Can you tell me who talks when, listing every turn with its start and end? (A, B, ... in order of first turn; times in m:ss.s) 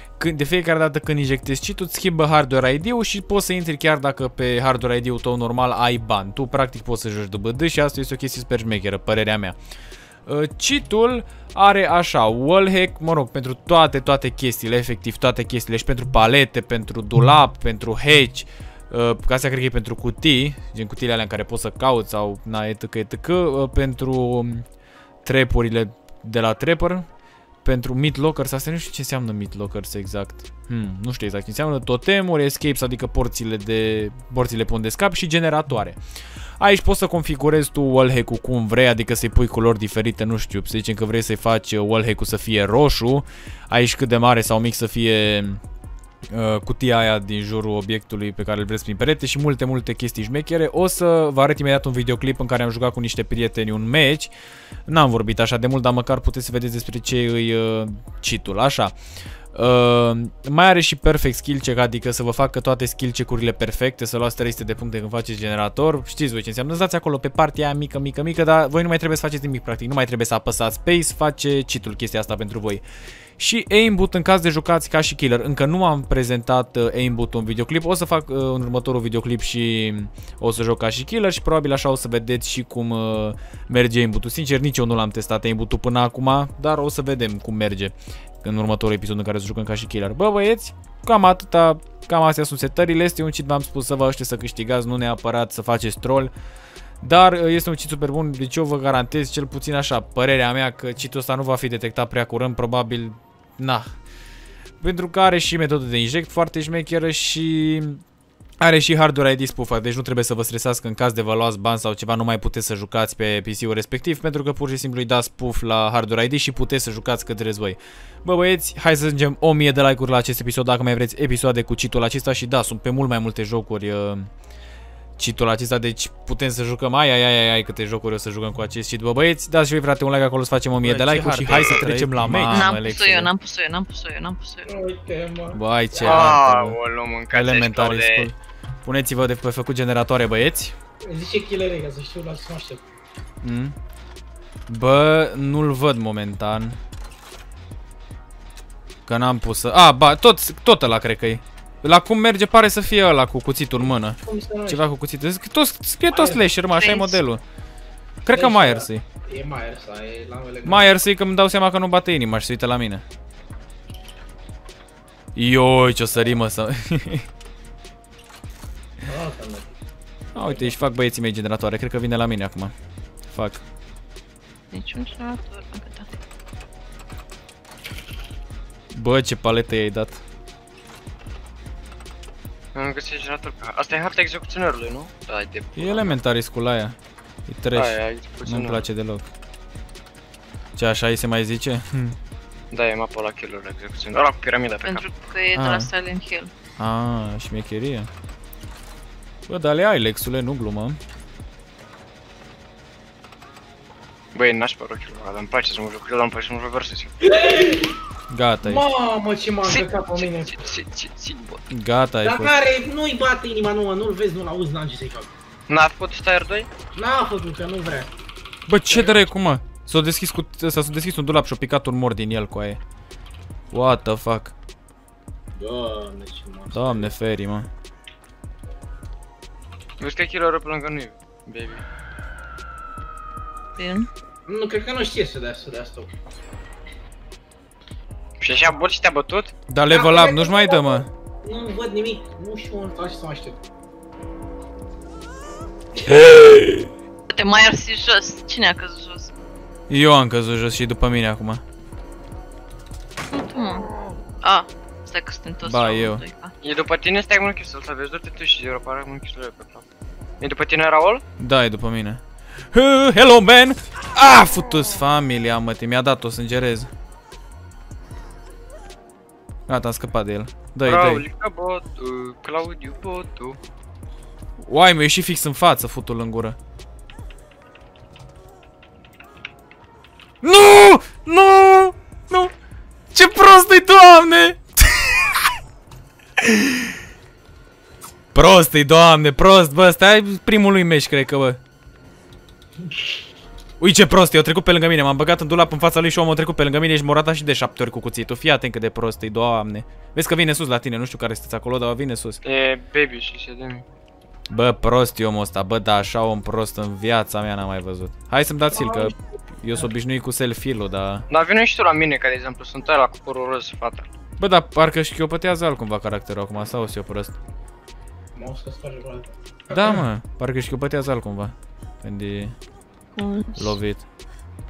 0:00.2-0:09.6 A
0:10.3-0:24.6 A
0:25.2-0:27.1 A
0:27.6-0:36.0 A
0:36.6-0:45.6 A
0:46.3-0:54.3 A
0:54.9-0:58.9 A
0:59.5-1:12.8 A
1:13.4-1:36.3 A
1:37.0-1:43.9 A
1:44.8-1:48.0 A
1:48.6-2:04.3 A
2:05.2-2:13.3 A
2:10.8-2:12.4 B
2:11.4-2:12.5 C
2:12.5-2:14.7 D
2:14.7-2:16.4 B
2:15.5-2:16.8 A
2:16.0-2:18.3 C
2:17.3-2:20.8 A
2:21.0-2:22.8 B
2:23.4-2:23.8 A
2:24.7-2:26.8 A
2:29.1-2:37.4 A
2:34.2-2:34.9 B
2:36.1-2:36.5 B
2:36.7-2:37.2 D
2:38.2-2:39.0 A
2:38.3-2:40.9 B
2:40.6-2:43.0 A
2:45.4-2:47.3 A
2:49.1-2:49.8 B
2:50.3-2:52.7 A
2:50.4-2:50.8 B
2:53.3-2:53.6 A
2:54.7-2:56.1 D
2:58.9-3:00.2 A
3:02.8-3:06.2 C
3:05.8-3:07.0 A
3:07.5-3:09.3 A
3:07.7-3:08.9 C
3:10.8-3:12.2 A
3:12.7-3:15.1 C
3:14.8-3:16.5 D
3:15.6-3:15.9 A
3:16.8-3:18.1 A
3:19.5-3:21.0 A
3:24.4-3:27.1 C
3:27.2-3:28.0 B
3:28.3-3:28.8 A
3:28.6-3:30.6 B
3:29.6-3:31.6 C
3:31.7-3:32.5 A
3:32.2-3:35.3 B
3:35.7-3:36.7 C
3:36.9-3:38.1 B
3:38.7-3:42.8 A
3:38.9-3:39.2 B
3:43.7-3:44.6 A
3:45.6-3:47.1 B
3:46.7-3:47.7 A
3:50.0-3:51.8 C
3:53.8-3:54.1 D
3:54.5-3:56.1 B
3:58.4-3:59.5 C
3:59.7-4:01.1 A
3:59.9-4:03.6 B
4:06.1-4:06.8 A
4:07.3-4:09.3 D
4:09.9-4:11.6 A
4:13.3-4:16.5 D
4:15.6-4:16.2 A
4:16.6-4:19.8 C
4:20.4-4:21.2 C
4:21.4-4:22.2 A
4:22.7-4:26.9 A
4:29.7-4:31.2 A
4:30.8-4:33.6 C
4:34.6-4:36.6 A
4:40.4-4:42.5 A
4:43.1-4:45.4 A
4:46.4-4:46.7 A
4:48.3-4:51.6 A
4:53.8-5:02.4 A
5:02.4-5:03.8 C
5:04.5-5:11.3 A
5:08.7-5:09.2 B
5:11.3-5:14.1 C
5:14.4-5:17.3 A
5:18.4-5:20.0 B
5:19.7-5:22.6 A
5:23.2-5:23.8 D
5:23.6-5:24.0 A